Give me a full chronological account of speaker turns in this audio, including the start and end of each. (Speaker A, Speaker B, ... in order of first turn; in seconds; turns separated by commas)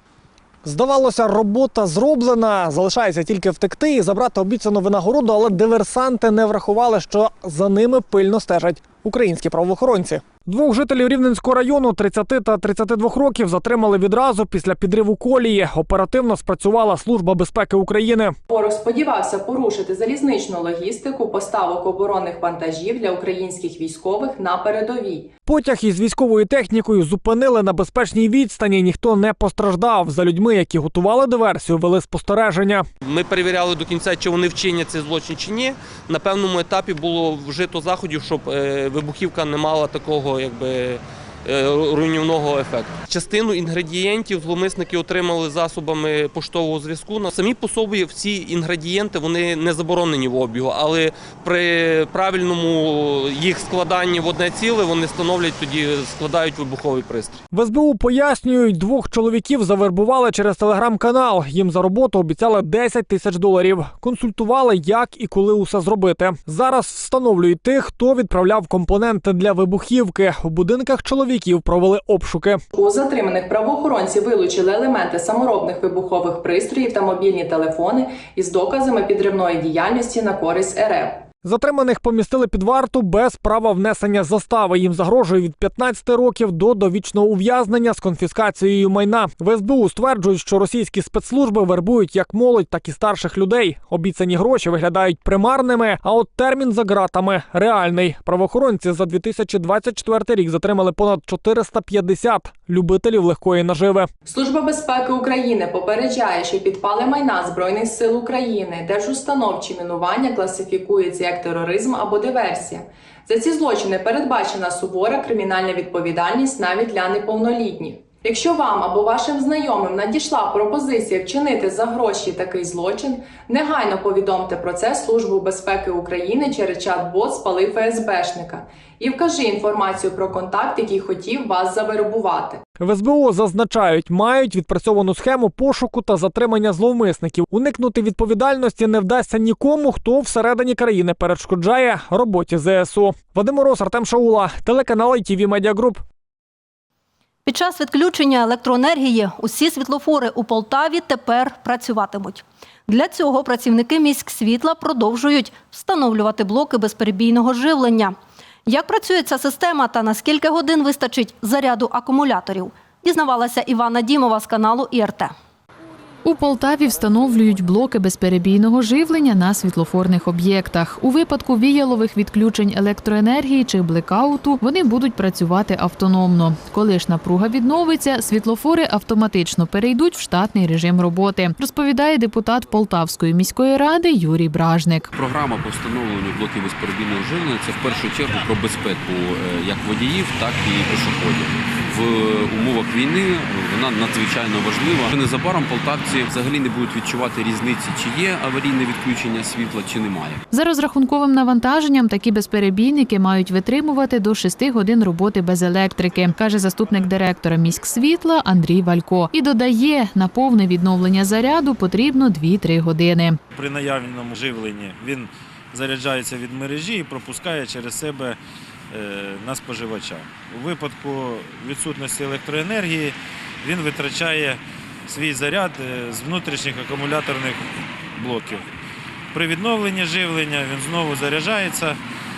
Speaker A: 0.6-18.4, Speaker B: 18.5-25.3, Speaker A: 25.5-32.9, Speaker C: 33.0-57.4, Speaker A: 57.5-72.6, Speaker B: 72.7-81.2, Speaker A: 81.4-104.1, Speaker B: 104.3-132.6, Speaker A: 132.8-146.0, Speaker D: 147.5-158.2, Speaker D: 158.7-165.3, Speaker E: 166.2-185.1, Speaker F: 185.1-200.4, Speaker E: 200.5-213.4, Speaker G: 213.5-218.4, Speaker G: 218.9-227.6, Speaker G: 228.2-228.7, Speaker G: 229.3-232.0